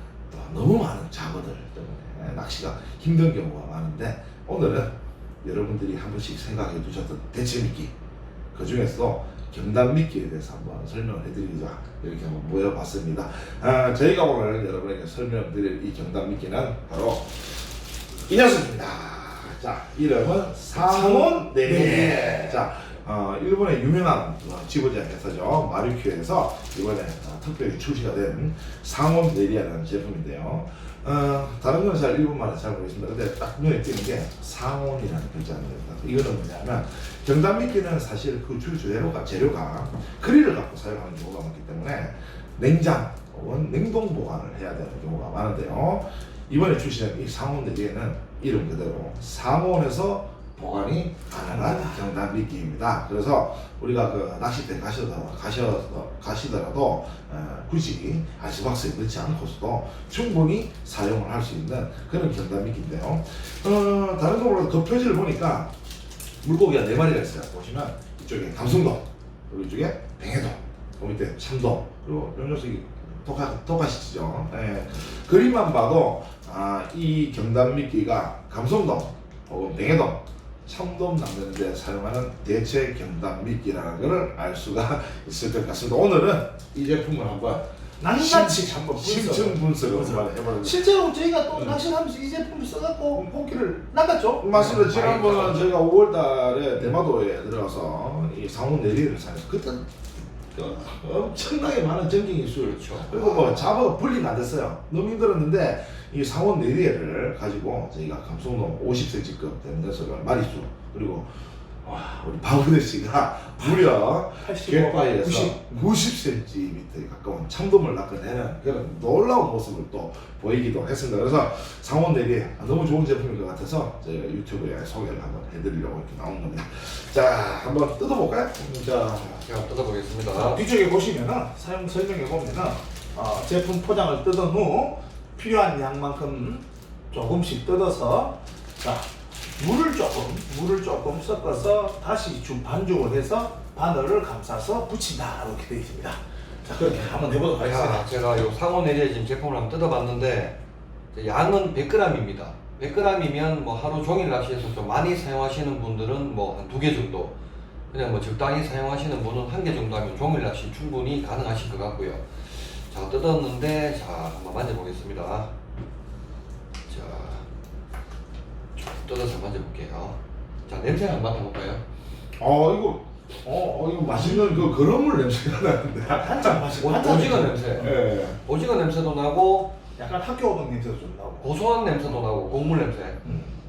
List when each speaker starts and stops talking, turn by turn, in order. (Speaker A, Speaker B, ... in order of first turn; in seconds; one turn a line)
Speaker A: 0.3-7.9
Speaker A: 8.5-65.7
Speaker B: 20.8-22.4
Speaker C: 21.6-22.6
Speaker B: 51.3-52.0
Speaker A: 66.4-90.9
Speaker B: 88.0-94.9
Speaker A: 94.4-129.5
Speaker C: 94.5-95.8
Speaker C: 102.6-103.8
Speaker B: 114.4-115.8
Speaker C: 129.4-130.6
Speaker B: 130.3-148.1
Speaker C: 147.6-150.6
Speaker C: 151.1-157.4
Speaker C: 157.9-165.5
Speaker C: 166.9-167.5
Speaker C: 168.8-171.8
Speaker A: 172.4-178.4
Speaker B: 173.4-174.7
Speaker B: 176.0-178.0
Speaker C: 176.8-179.8
Speaker B: 180.0-181.5
Speaker C: 181.4-183.2